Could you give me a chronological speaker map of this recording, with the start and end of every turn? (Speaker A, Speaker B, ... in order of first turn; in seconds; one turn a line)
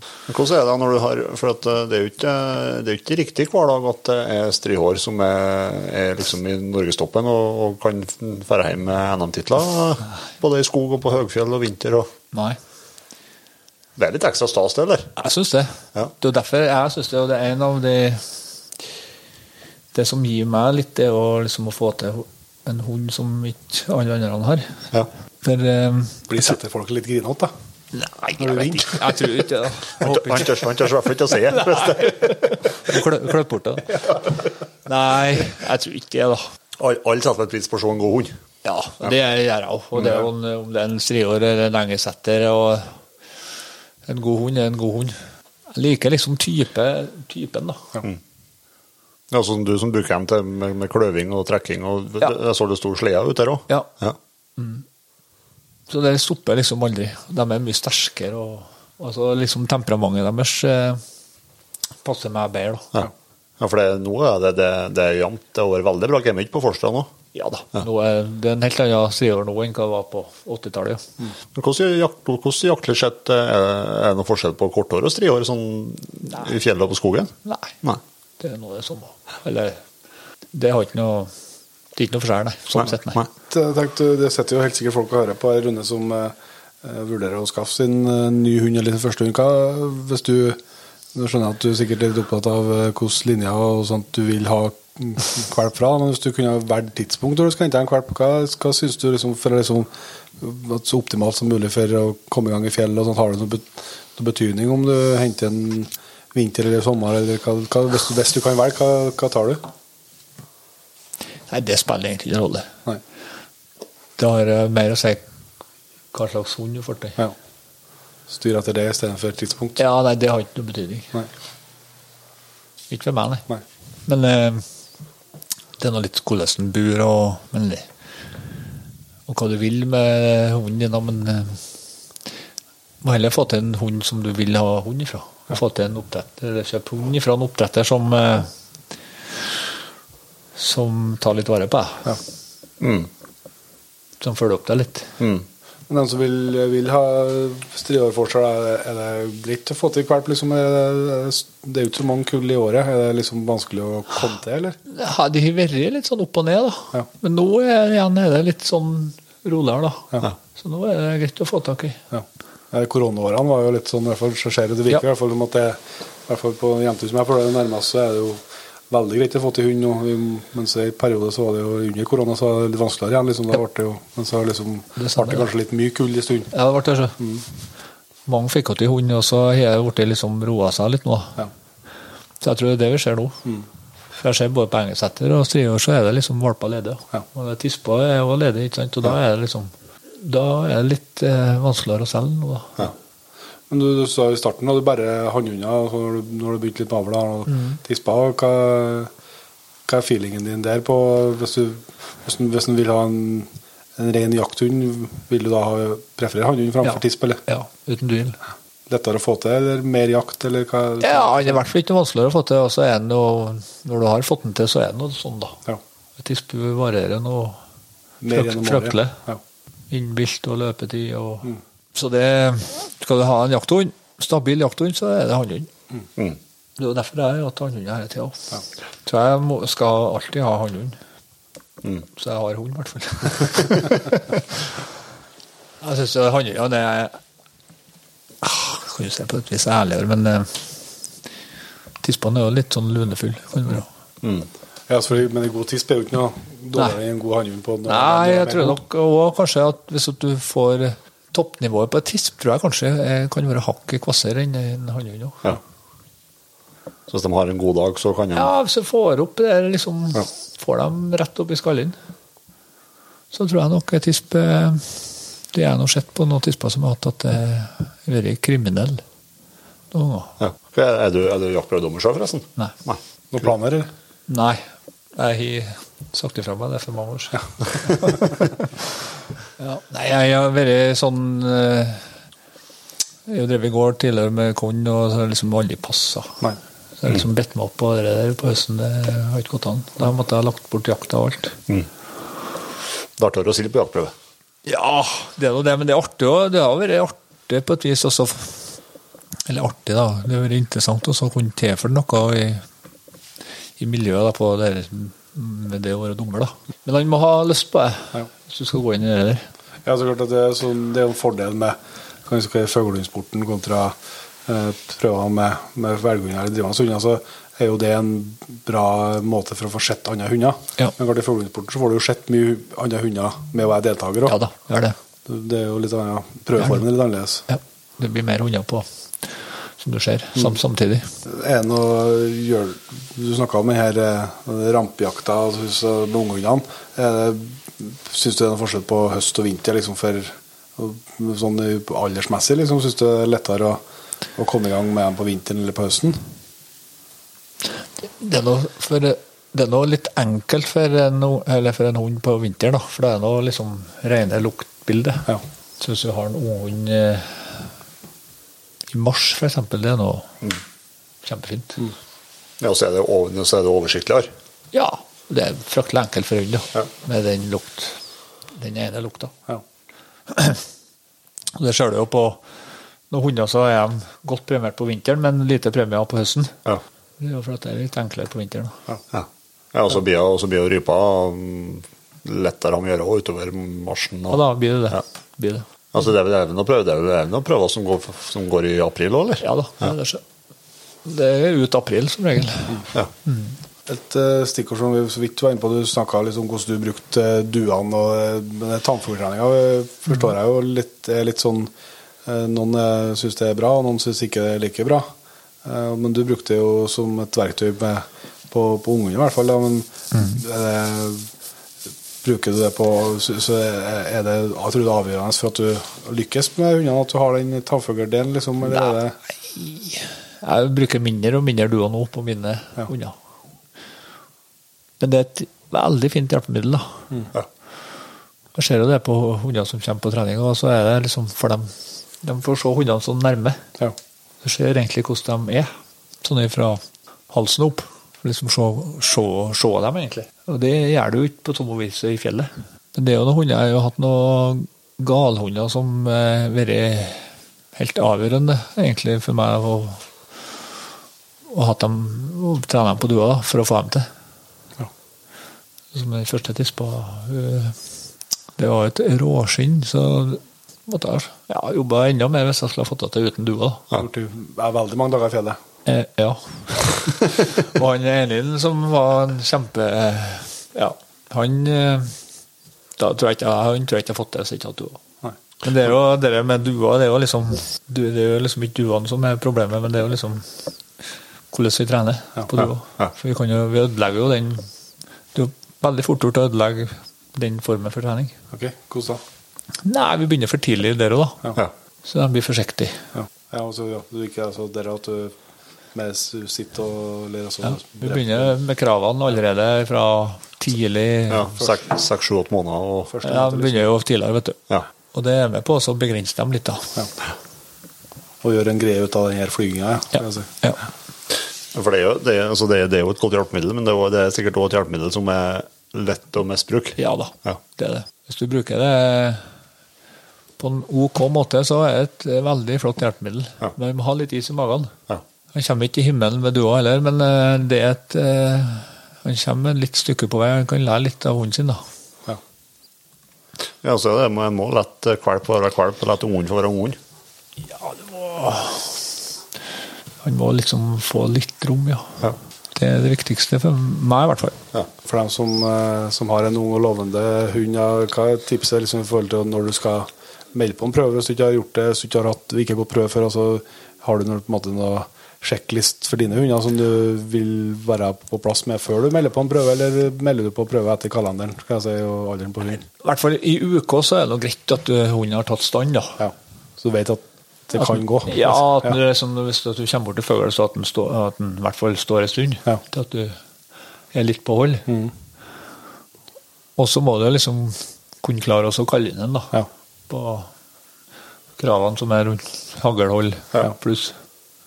Speaker A: 0.3-12.1
Speaker B: 12.3-12.6
Speaker A: 13.9-15.1
Speaker B: 15.2-18.4
Speaker B: 19.9-26.5
Speaker C: 26.3-27.5
Speaker B: 27.9-30.6
Speaker C: 28.4-29.1
Speaker A: 30.0-32.4
Speaker B: 31.4-36.5
Speaker A: 36.8-38.3
Speaker B: 38.6-43.0
Speaker A: 40.0-40.2
Speaker B: 44.0-45.2
Speaker B: 45.7-48.0
Speaker A: 49.3-54.2
Speaker B: 54.6-54.8
Speaker B: 55.9-61.0
Speaker B: 62.0-62.9
Speaker A: 62.9-67.1
Speaker B: 67.3-71.0
Speaker A: 71.5-78.0
Speaker B: 77.5-77.7
Speaker B: 78.4-79.8
Speaker B: 80.5-81.3
Speaker B: 81.9-83.2
Speaker C: 83.5-90.6
Speaker C: 91.1-99.9
Speaker C: 100.4-109.6
Speaker B: 111.5-112.7
Speaker B: 114.2-115.2
Speaker B: 116.1-117.2
Speaker C: 118.3-119.8
Speaker B: 119.8-121.1
Speaker B: 122.9-123.5
Speaker B: 124.0-124.7
Speaker B: 125.8-127.9
Speaker B: 129.3-131.6
Speaker B: 133.0-138.5
Speaker B: 140.6-142.2
Speaker A: 142.8-143.1
Speaker B: 144.2-145.1
Speaker A: 145.2-145.4
Speaker C: 145.9-154.8
Speaker B: 154.9-162.0
Speaker C: 162.1-176.5
Speaker B: 174.9-175.5
Speaker B: 176.5-177.2
Speaker B: 178.2-181.4
Speaker B: 182.4-183.4
Speaker B: 184.2-192.9
Speaker C: 193.7-199.1
Speaker B: 197.5-197.8
Speaker C: 199.9-207.4
Speaker B: 206.8-208.4
Speaker C: 208.9-211.6
Speaker B: 211.0-215.6
Speaker B: 216.2-217.6
Speaker C: 218.2-219.4
Speaker B: 218.3-219.2
Speaker B: 219.9-225.7
Speaker B: 226.8-231.0
Speaker B: 232.2-234.4
Speaker B: 235.8-237.2
Speaker B: 238.4-240.7
Speaker B: 242.0-243.9
Speaker A: 244.2-244.5
Speaker C: 244.9-248.8
Speaker B: 247.9-255.5
Speaker A: 257.1-258.5
Speaker B: 258.3-261.9
Speaker B: 263.3-269.0
Speaker B: 269.9-270.4
Speaker A: 270.4-273.0
Speaker C: 273.3-273.9
Speaker B: 274.3-278.7
Speaker B: 279.6-282.1
Speaker B: 283.2-286.4
Speaker B: 287.0-291.6
Speaker A: 293.2-294.1
Speaker B: 294.6-298.8
Speaker B: 299.4-302.6
Speaker B: 303.8-309.5
Speaker C: 309.8-324.4
Speaker B: 324.2-325.0
Speaker C: 325.2-327.5
Speaker B: 327.5-329.3
Speaker B: 329.8-331.1
Speaker C: 331.2-343.8
Speaker C: 344.4-346.2
Speaker B: 348.0-355.3
Speaker B: 355.8-357.7
Speaker B: 358.9-360.4
Speaker B: 361.2-361.8
Speaker A: 362.6-364.3
Speaker B: 364.7-368.0
Speaker B: 368.5-369.3
Speaker B: 370.3-370.6
Speaker B: 371.6-372.4
Speaker B: 373.1-376.6
Speaker B: 377.2-378.8
Speaker A: 379.1-385.0
Speaker B: 384.3-385.6
Speaker A: 385.9-389.4
Speaker B: 389.4-390.2
Speaker B: 391.0-393.6
Speaker C: 393.9-401.7
Speaker C: 402.2-405.1
Speaker C: 405.6-411.3
Speaker C: 412.2-419.1
Speaker B: 419.5-423.1
Speaker B: 425.0-427.1
Speaker B: 428.5-433.6
Speaker B: 434.4-435.7
Speaker B: 436.2-450.1
Speaker B: 451.5-454.1
Speaker B: 455.9-457.8
Speaker B: 458.6-463.9
Speaker C: 463.9-465.6
Speaker B: 465.9-472.2
Speaker B: 473.0-475.0
Speaker B: 475.6-480.6
Speaker B: 481.5-484.7
Speaker B: 485.3-488.3
Speaker C: 488.5-489.2
Speaker B: 489.8-493.1
Speaker C: 493.1-495.3
Speaker C: 495.9-498.5
Speaker B: 497.6-501.6
Speaker A: 501.3-503.1
Speaker C: 503.1-503.9
Speaker B: 503.2-504.6
Speaker B: 505.1-506.9
Speaker C: 508.4-510.6
Speaker A: 511.7-517.6
Speaker B: 517.0-519.5
Speaker B: 520.6-524.9
Speaker B: 525.5-531.8
Speaker A: 533.8-537.0
Speaker B: 537.7-539.1
Speaker B: 540.2-542.2
Speaker B: 542.7-544.5
Speaker C: 545.0-562.9
Speaker B: 563.0-566.2
Speaker C: 566.2-569.0
Speaker B: 567.8-573.4
Speaker B: 574.1-574.8
Speaker C: 574.9-575.1
Speaker B: 576.8-580.5
Speaker B: 581.6-584.1